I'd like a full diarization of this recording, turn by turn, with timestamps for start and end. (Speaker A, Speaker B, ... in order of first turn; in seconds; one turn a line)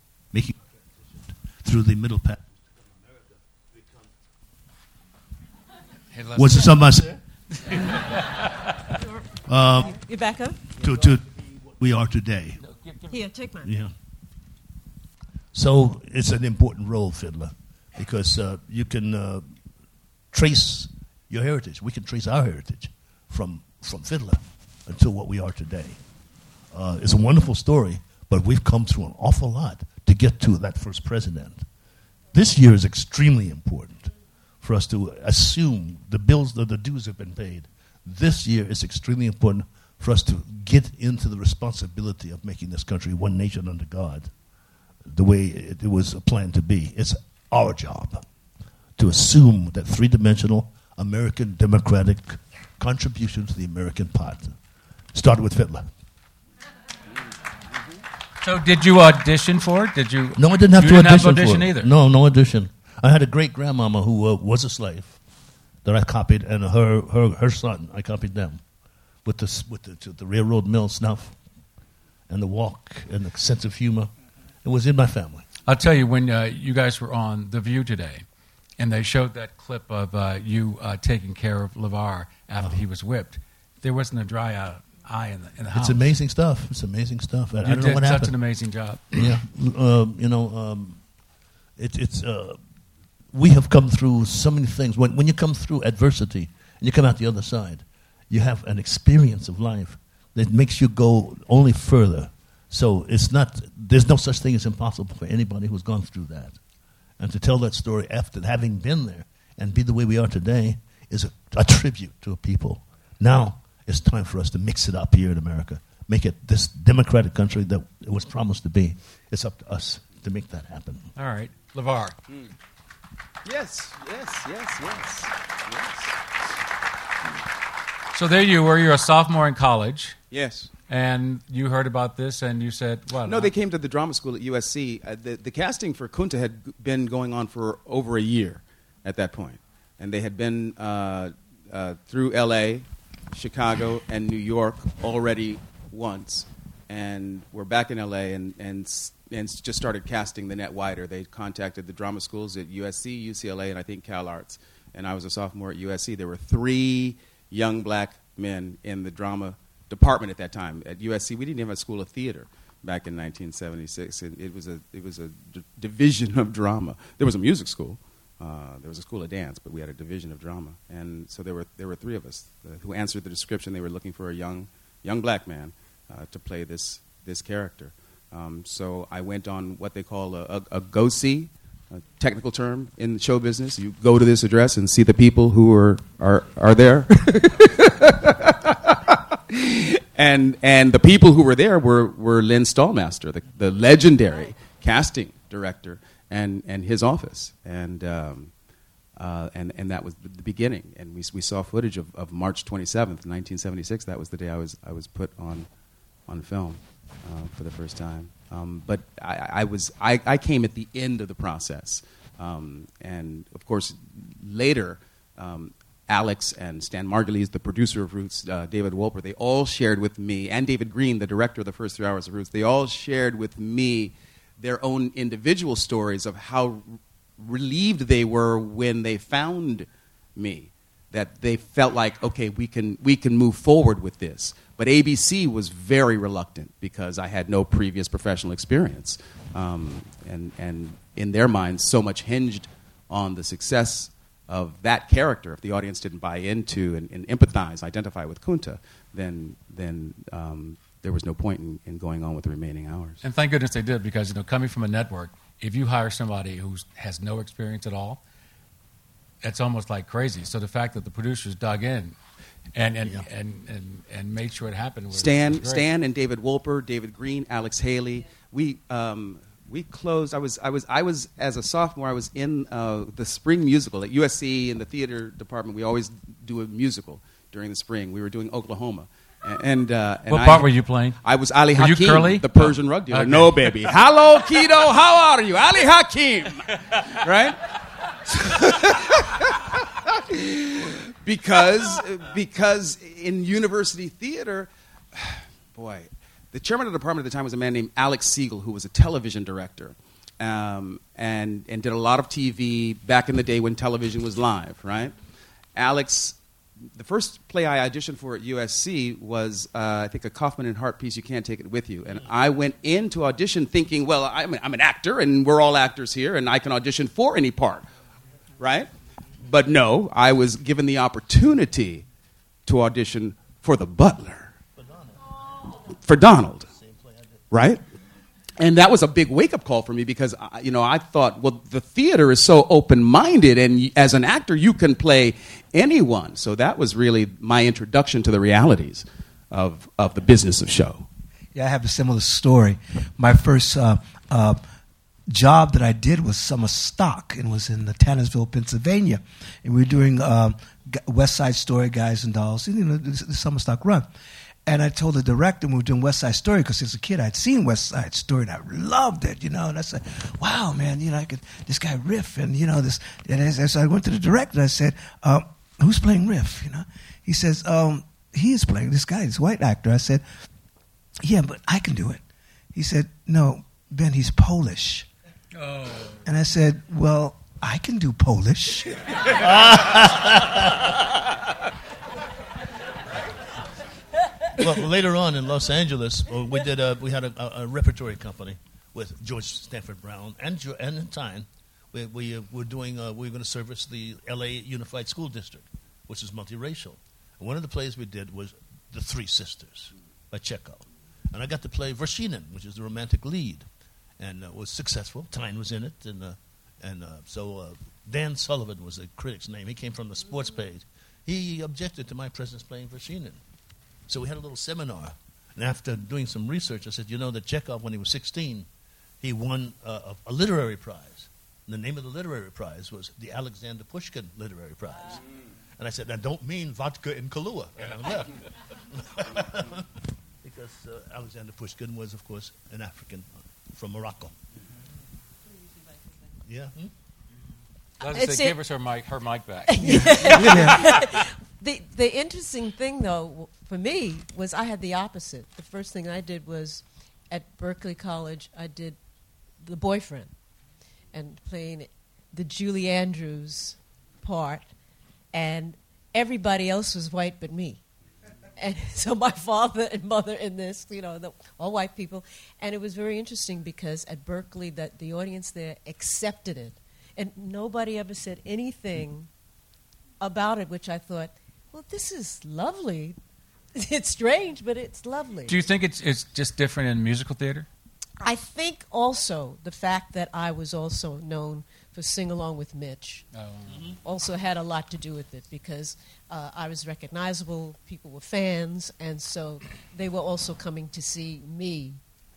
Speaker A: 0.3-2.6
Speaker B: 6.1-8.7
Speaker A: 6.3-7.2
Speaker A: 9.5-10.0
Speaker C: 9.8-10.6
Speaker A: 10.8-12.6
Speaker B: 12.6-13.2
Speaker C: 13.1-13.7
Speaker A: 13.6-13.9
Speaker A: 15.5-19.6
Speaker A: 20.3-26.0
Speaker A: 26.7-31.7
Speaker A: 32.3-44.3
Speaker A: 45.0-48.2
Speaker A: 49.0-54.6
Speaker A: 55.1-55.9
Speaker B: 58.4-61.9
Speaker A: 60.4-65.2
Speaker A: 65.8-68.6
Speaker A: 69.2-71.4
Speaker A: 72.3-75.5
Speaker B: 75.7-78.2
Speaker B: 78.8-86.0
Speaker A: 85.7-88.3
Speaker B: 87.6-89.3
Speaker A: 89.1-91.1
Speaker A: 91.8-92.6
Speaker A: 93.3-106.6
Speaker A: 107.2-121.1
Speaker B: 121.2-122.2
Speaker D: 123.4-126.2
Speaker B: 128.1-130.2
Speaker D: 130.3-130.7
Speaker B: 130.9-133.5
Speaker D: 133.2-198.5
Speaker D: 199.2-205.7
Speaker D: 206.3-253.2
Speaker B: 253.2-258.2
Speaker B: 259.4-262.2
Speaker B: 262.8-265.9
Speaker D: 265.1-280.7
Speaker B: 280.3-281.2
Speaker D: 281.2-287.6
Speaker B: 281.8-283.9
Speaker D: 288.3-305.2
Speaker D: 305.8-306.4
Speaker D: 306.9-317.9
Speaker D: 318.6-318.9
Speaker D: 319.4-322.1
Speaker D: 322.7-324.5
Speaker A: 324.8-325.3
Speaker D: 325.9-326.7
Speaker A: 326.8-327.4
Speaker D: 327.5-327.8
Speaker D: 328.6-341.1
Speaker E: 341.5-344.6
Speaker E: 345.3-354.1
Speaker E: 354.7-370.2
Speaker E: 371.2-372.2
Speaker E: 372.7-375.1
Speaker B: 375.5-376.2
Speaker E: 376.2-379.1
Speaker A: 379.3-381.0
Speaker A: 384.6-403.7
Speaker A: 404.2-413.4
Speaker A: 414.1-418.7
Speaker A: 419.2-425.3
Speaker A: 425.8-429.9
Speaker A: 430.4-434.3
Speaker A: 436.4-436.9
Speaker B: 438.0-441.2
Speaker C: 438.0-438.6
Speaker C: 439.7-449.0
Speaker E: 439.8-440.8
Speaker C: 449.6-450.3
Speaker C: 451.1-454.7
Speaker C: 455.3-457.8
Speaker C: 458.6-469.3
Speaker C: 470.2-473.2
Speaker C: 473.8-475.7
Speaker B: 475.5-477.7
Speaker C: 478.2-483.2
Speaker B: 483.3-483.9
Speaker A: 483.7-484.0
Speaker C: 484.0-492.0